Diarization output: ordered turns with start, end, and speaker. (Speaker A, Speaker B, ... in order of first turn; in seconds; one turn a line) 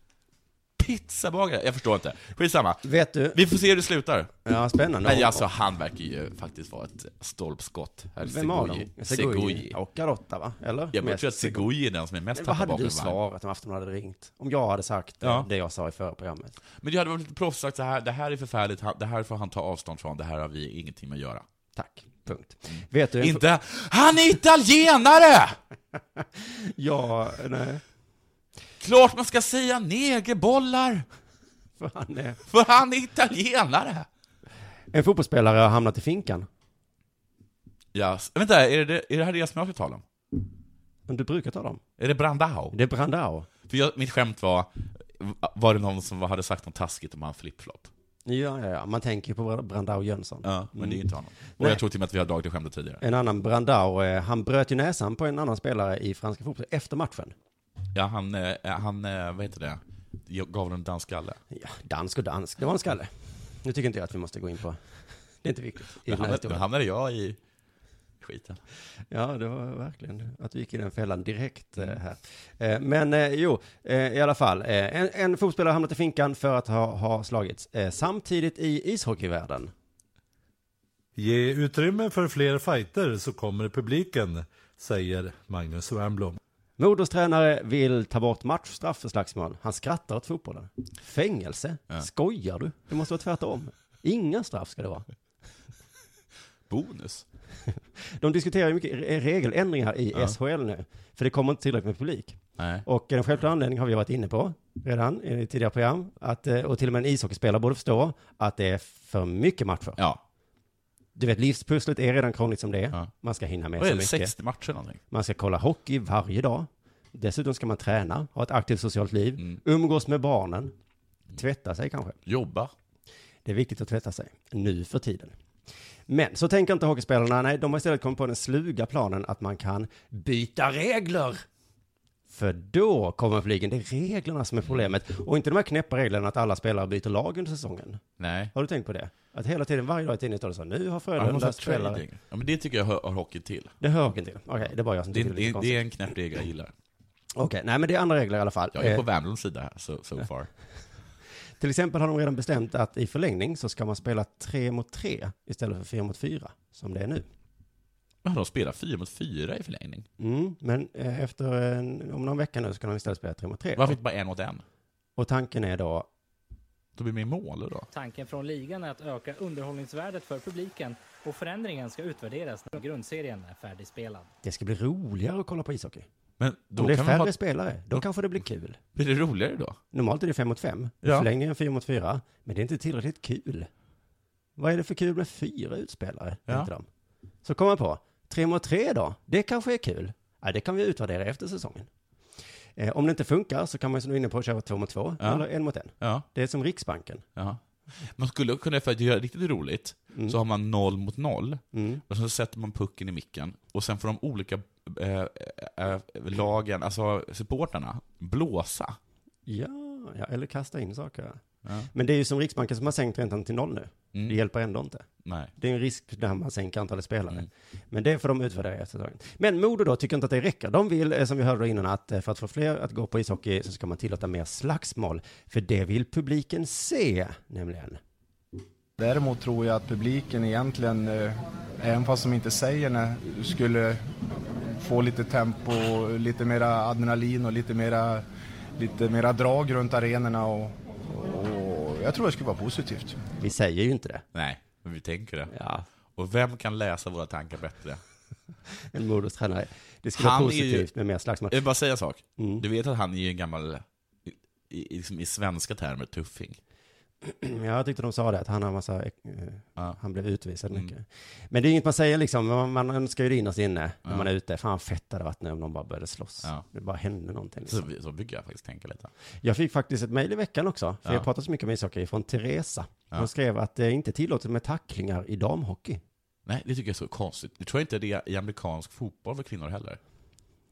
Speaker A: 0.8-4.3
Speaker B: 2.8-3.4
Speaker B: 4.4-5.5
Speaker A: 5.0-9.8
Speaker B: 8.2-11.7
Speaker A: 10.9-13.2
Speaker B: 12.3-16.6
Speaker A: 15.2-15.5
Speaker A: 16.8-21.4
Speaker B: 21.8-23.4
Speaker A: 23.2-25.6
Speaker B: 26.2-27.8
Speaker A: 28.8-31.1
Speaker B: 31.8-32.4
Speaker A: 32.5-34.1
Speaker B: 34.9-36.5
Speaker A: 37.9-40.0
Speaker B: 41.1-41.8
Speaker A: 42.0-42.8
Speaker B: 42.7-43.5
Speaker A: 43.6-47.9
Speaker B: 48.2-51.8
Speaker A: 50.4-53.0
Speaker B: 53.0-57.3
Speaker A: 57.9-61.4
Speaker B: 61.5-63.1
Speaker B: 63.6-64.8
Speaker B: 65.4-66.7
Speaker A: 66.0-67.4
Speaker A: 68.2-68.6
Speaker B: 69.1-79.7
Speaker C: 81.2-86.4
Speaker B: 86.8-95.1
Speaker A: 96.7-97.2
Speaker B: 98.2-110.0
Speaker A: 102.6-102.8
Speaker B: 111.1-114.3
Speaker A: 113.8-115.0
Speaker B: 115.1-120.7
Speaker B: 121.3-122.2
Speaker A: 122.2-122.7
Speaker B: 123.4-125.3
Speaker B: 126.1-131.4
Speaker B: 132.3-138.0
Speaker A: 138.2-138.5
Speaker B: 138.5-142.0
Speaker A: 141.2-143.8
Speaker B: 143.8-145.8
Speaker A: 145.1-146.7
Speaker B: 147.3-149.0
Speaker A: 148.7-150.5
Speaker B: 151.6-157.2
Speaker A: 158.2-160.1
Speaker B: 160.2-164.0
Speaker A: 163.8-164.6
Speaker B: 165.2-166.1
Speaker A: 166.9-167.9
Speaker D: 167.9-174.3
Speaker B: 174.4-176.0
Speaker A: 176.4-177.3
Speaker B: 176.8-178.8
Speaker A: 178.9-179.8
Speaker B: 179.9-183.7
Speaker A: 181.0-181.3
Speaker B: 184.6-186.8
Speaker B: 187.4-191.9
Speaker B: 192.8-197.2
Speaker A: 196.0-196.2
Speaker A: 197.3-197.6
Speaker A: 198.1-209.0
Speaker B: 201.7-202.0
Speaker B: 209.5-211.4
Speaker B: 211.9-215.1
Speaker A: 215.2-215.5
Speaker B: 215.6-228.0
Speaker E: 229.0-234.0
Speaker E: 234.8-238.2
Speaker E: 238.8-243.2
Speaker B: 243.4-244.2
Speaker A: 244.3-245.5
Speaker B: 245.5-245.8
Speaker A: 246.2-248.0
Speaker B: 248.9-251.6
Speaker A: 250.2-250.9
Speaker A: 251.5-256.6
Speaker B: 252.4-252.6
Speaker B: 257.2-267.9
Speaker A: 267.7-269.1
Speaker B: 269.4-276.0
Speaker A: 276.4-280.0